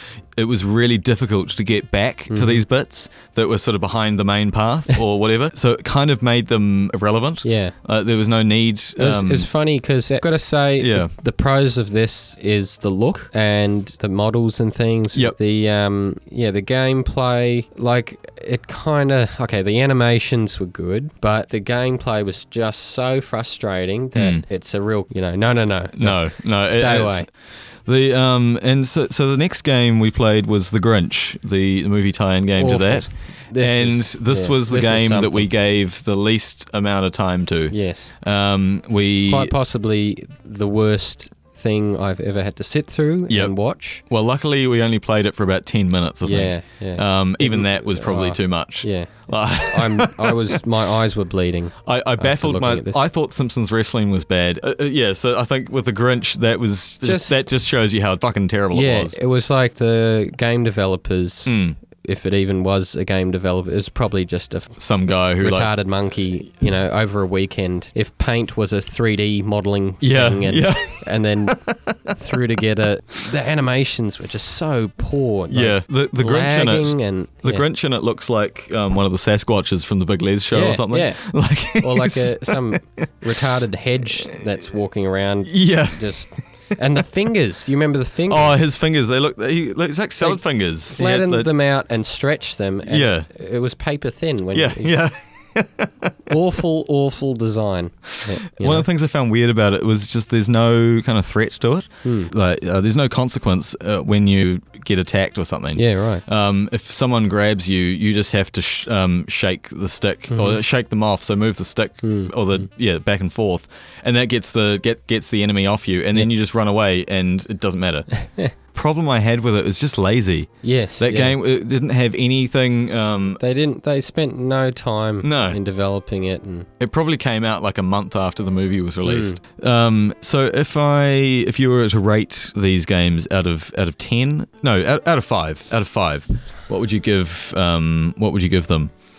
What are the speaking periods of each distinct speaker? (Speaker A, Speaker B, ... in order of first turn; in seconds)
Speaker A: 0.4-9.5, 10.8-11.1, 24.1-24.4, 26.0-27.2, 27.9-39.5, 43.3-43.5, 44.1-50.6, 51.9-59.2, 61.5-61.8, 64.8-65.7, 70.0-72.1, 75.5-83.1, 85.5-86.2, 88.3-91.5, 92.9-93.3, 94.5-96.3, 98.2-118.1, 118.7-123.4, 125.2-125.6, 126.8-138.9
Speaker B: 2.3-2.6, 7.4-7.8, 9.0-27.2, 32.6-35.5, 37.7-38.1, 39.3-44.0, 46.2-53.0, 57.0-57.4, 58.7-77.7, 80.5-88.6, 90.2-95.0, 96.3-98.9, 102.0-102.3, 105.8-106.2, 110.3-110.6, 112.0-112.4, 120.6-121.4, 123.4-126.7, 129.0-129.4